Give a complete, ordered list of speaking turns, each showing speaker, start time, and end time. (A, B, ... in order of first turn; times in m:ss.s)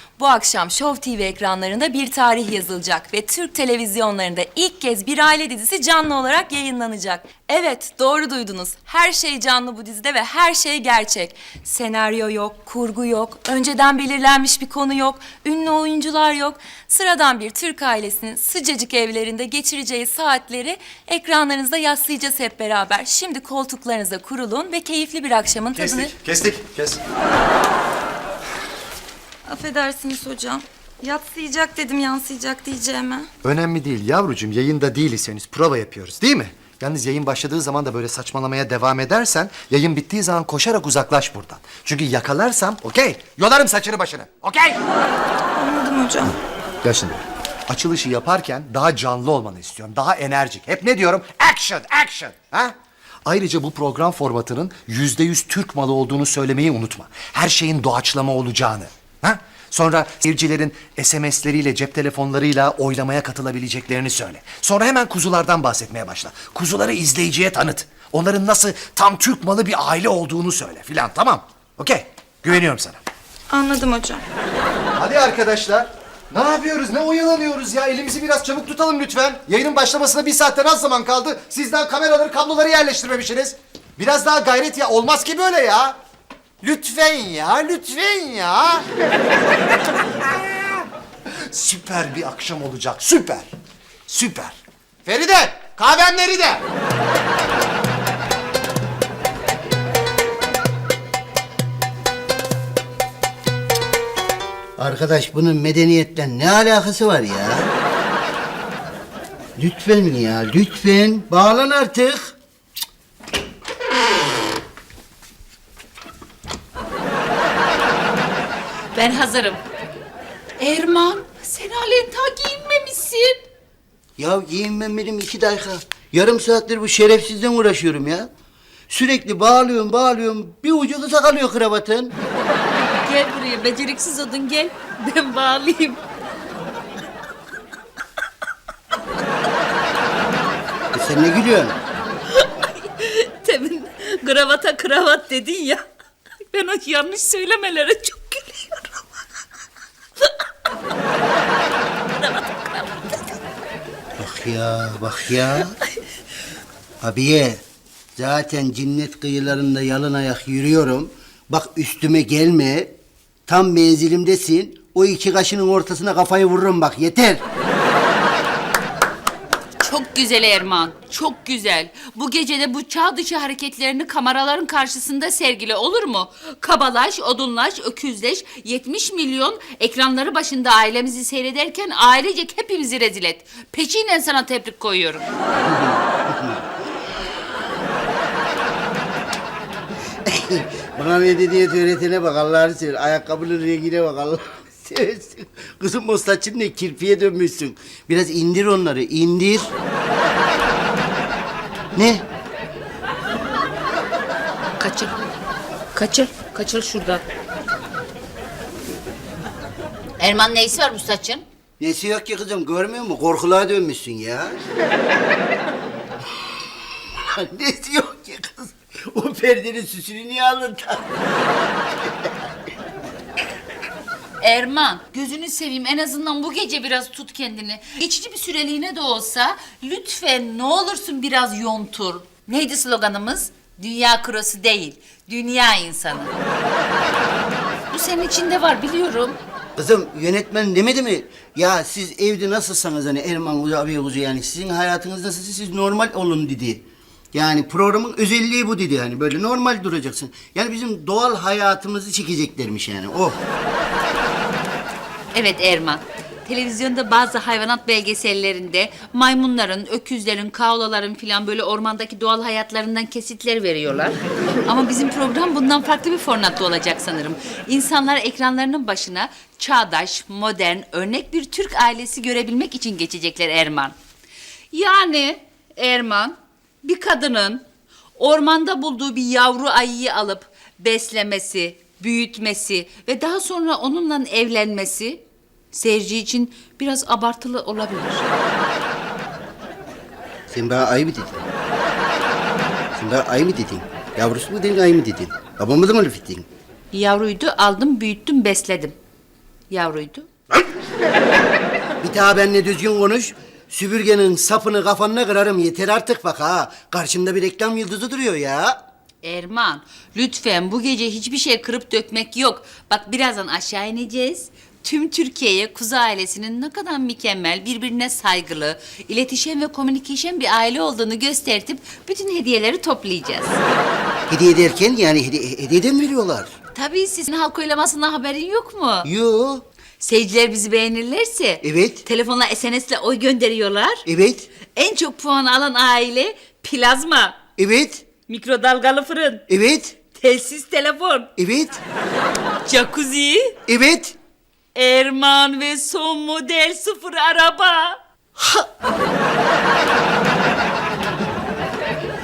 0:00.2-0:26.1 A
0:25.8-0:27.0 B
0:29.5-0:33.3 A
0:33.4-0:44.8 B
0:45.6-0:46.4 A
0:46.8-0:52.7 B
0:53.2-1:13.0 B
1:13.5-1:14.2 A
1:15.0-1:26.0 B
1:26.6-1:28.8 B
1:30.2-1:30.8 B
1:31.5-1:33.5 B
1:34.1-1:36.6 B
1:44.8-1:47.7 C
1:49.6-1:52.4 C
1:58.9-1:59.6 D
2:00.6-2:03.4 D
2:04.2-2:08.3 C
2:08.9-2:12.1 C
2:12.8-2:16.0 D
2:20.9-2:21.8 C
2:22.3-2:25.8 D
2:26.5-2:29.1 D
2:32.0-2:33.4 D
2:34.2-2:35.7 C
2:37.0-2:37.6 C
2:38.2-2:42.9 C
2:43.5-2:47.4 C
2:49.8-3:05.3 D
3:05.6-3:06.6 C
3:10.3-3:19.7 C
3:22.0-3:22.2 C
3:24.8-3:25.2 D
3:25.9-3:27.2 D
3:30.2-3:31.4 D
3:31.8-3:34.6 C
3:37.2-3:41.0 C
3:44.4-3:56.3 D
3:57.9-3:59.4 D
3:59.8-4:13.4 C
4:15.3-4:34.0 D
4:34.7-4:37.6 D
4:38.2-4:48.2 D
4:50.5-4:51.4 C
4:52.9-4:56.5 C
4:56.9-4:59.0 D
4:59.7-5:00.3 D
5:02.0-5:08.8 C
5:09.2-5:23.6 D
5:24.3-5:26.5 C
5:26.7-5:29.1 D
5:29.0-5:29.6 C
5:30.0-5:34.0 D
5:31.6-5:32.0 C
5:34.1-5:34.5 C
5:34.7-5:37.4 D
5:37.6-5:38.1 C
5:38.3-5:39.4 D
5:39.5-5:40.0 C
5:40.2-5:41.3 D
5:41.4-5:41.8 C
5:42.7-5:43.6 D
5:43.7-5:44.2 C
5:44.8-5:48.6 D